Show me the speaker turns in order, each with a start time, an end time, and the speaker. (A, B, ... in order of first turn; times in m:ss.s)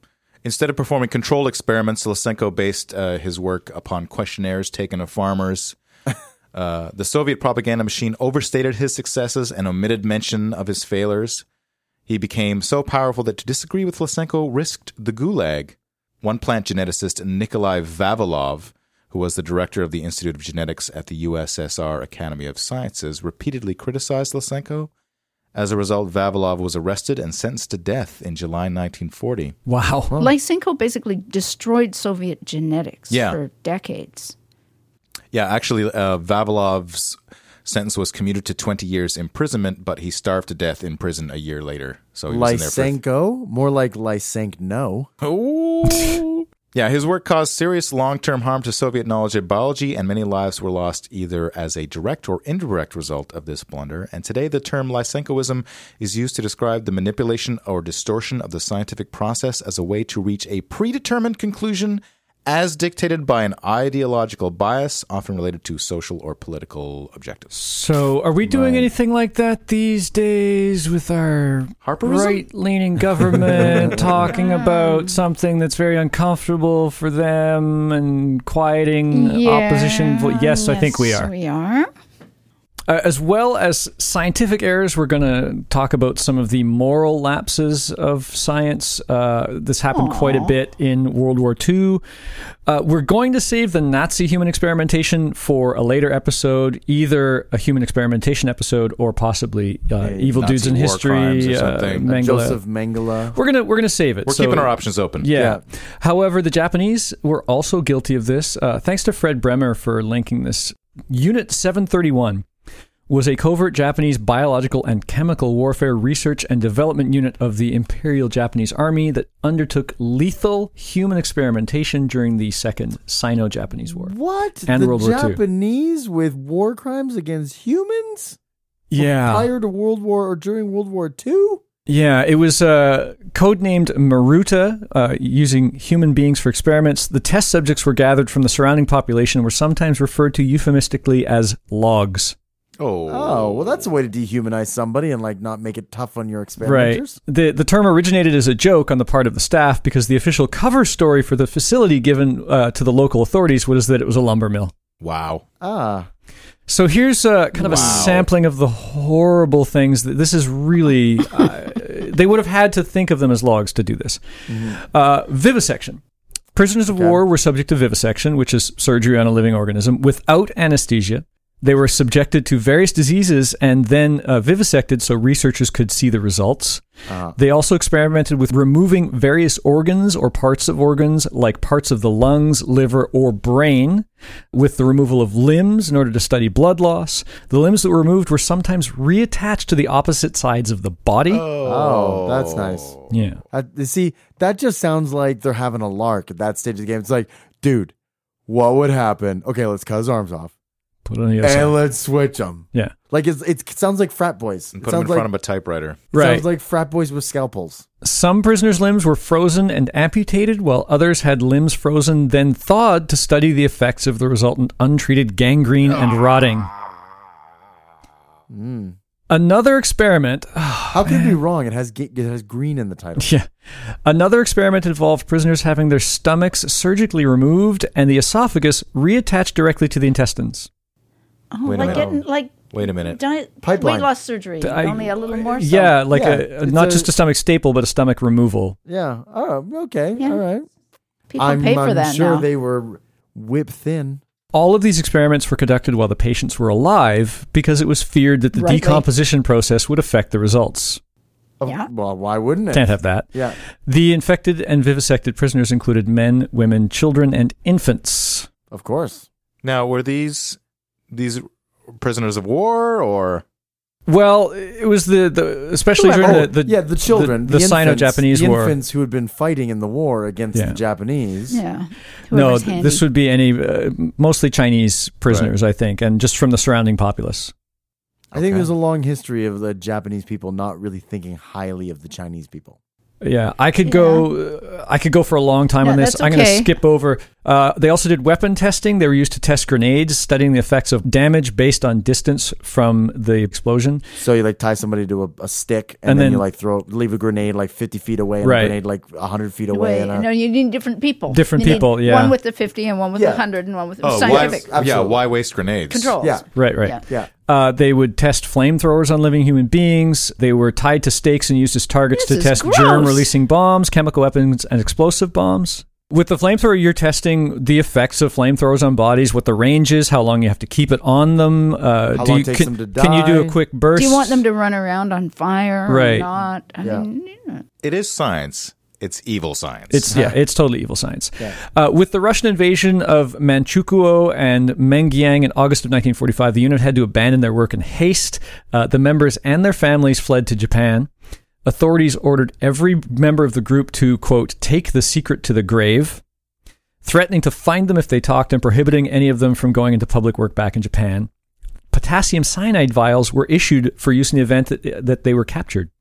0:00.4-0:05.8 A
0:06.5-0:11.4 A
0:12.1-0:24.9 A
0:25.5-0:29.6 A
0:29.6-0:30.1 B
0:30.2-0:34.3 C
0:33.1-0:33.4 A
0:35.3-0:43.0 A
0:42.3-0:45.1 D
0:45.2-1:07.5 A
0:45.9-0:46.2 B
1:07.5-1:21.3 B
1:08.5-1:08.9 D
1:11.8-1:12.4 A
1:13.6-1:13.9 A
1:13.6-1:14.3 D
1:14.3-1:15.2 C
1:19.1-1:21.9 C
1:22.9-1:32.0 B
1:29.9-1:30.5 C
1:32.6-1:42.6 B
1:40.0-1:40.4 D
1:40.4-1:42.1 A
1:42.0-1:43.4 D
1:43.3-1:52.4 B
1:44.2-1:45.3 A
1:45.3-1:45.6 D
1:53.1-2:04.1 B
2:03.9-2:08.4 D
2:04.6-2:05.4 B
2:08.9-2:09.5 B
2:09.0-2:11.6 D
2:11.9-2:22.4 B
2:22.8-2:23.9 A
2:23.1-2:27.2 D
2:26.6-2:34.7 B
2:35.0-2:35.4 A
2:35.6-2:36.1 D
2:36.7-2:46.0 B
2:37.6-2:38.3 A
2:37.6-2:38.2 D
2:44.5-2:44.8 D
2:46.5-2:56.8 B
2:46.9-2:47.2 D
2:57.1-2:57.4 D
2:57.4-3:11.4 B
3:11.3-3:13.1 A
3:11.6-3:12.9 D
3:13.1-3:13.4 B
3:13.5-3:17.9 D
3:18.5-3:20.5 D
3:21.0-3:21.8 B
3:21.4-3:25.3 D
3:24.8-3:26.0 A
3:26.1-3:26.4 B
3:26.1-3:27.8 D
3:28.0-3:36.7 B
3:38.5-3:39.0 D
3:39.3-3:41.4 B
3:40.9-3:43.3 D
3:43.2-3:50.7 B
3:51.5-3:56.0 C
3:51.6-3:52.2 A
3:51.8-3:52.2 D
3:52.7-3:53.2 A
3:53.6-3:54.1 D
3:54.6-3:58.8 B
3:56.1-3:57.1 D
3:58.8-4:00.7 D
4:01.3-4:02.4 C
4:01.4-4:04.2 D
4:04.5-4:11.0 B
4:08.5-4:09.0 C
4:11.6-4:13.6 D
4:12.7-4:18.5 B
4:18.7-4:19.2 D
4:19.6-4:20.6 A
4:21.1-4:23.4 A
4:24.1-4:28.8 B
4:26.0-4:26.5 C
4:26.2-4:31.6 D
4:31.5-4:33.0 C
4:32.3-4:37.5 B
4:38.3-4:38.7 A
4:38.3-4:42.8 D
4:43.2-4:54.0 B
4:43.8-4:44.3 C
4:45.8-4:46.7 C
4:54.2-5:00.3 D
4:56.0-4:56.4 B
4:58.4-4:58.8 B
4:59.7-5:04.7 C
5:01.3-5:02.4 B
5:03.1-5:03.4 D
5:04.0-5:06.2 A
5:04.1-5:05.2 D
5:05.9-5:07.0 C
5:06.2-5:06.4 D
5:06.6-5:24.4 B
5:12.1-5:13.3 C
5:22.1-5:23.6 D
5:23.9-5:27.6 C
5:25.9-5:26.3 B
5:26.8-5:27.1 D
5:27.8-5:30.1 A
5:29.9-5:41.1 B
5:30.1-5:30.4 D
5:41.6-5:46.2 B
5:47.0-5:51.3 B
5:51.9-5:55.9 B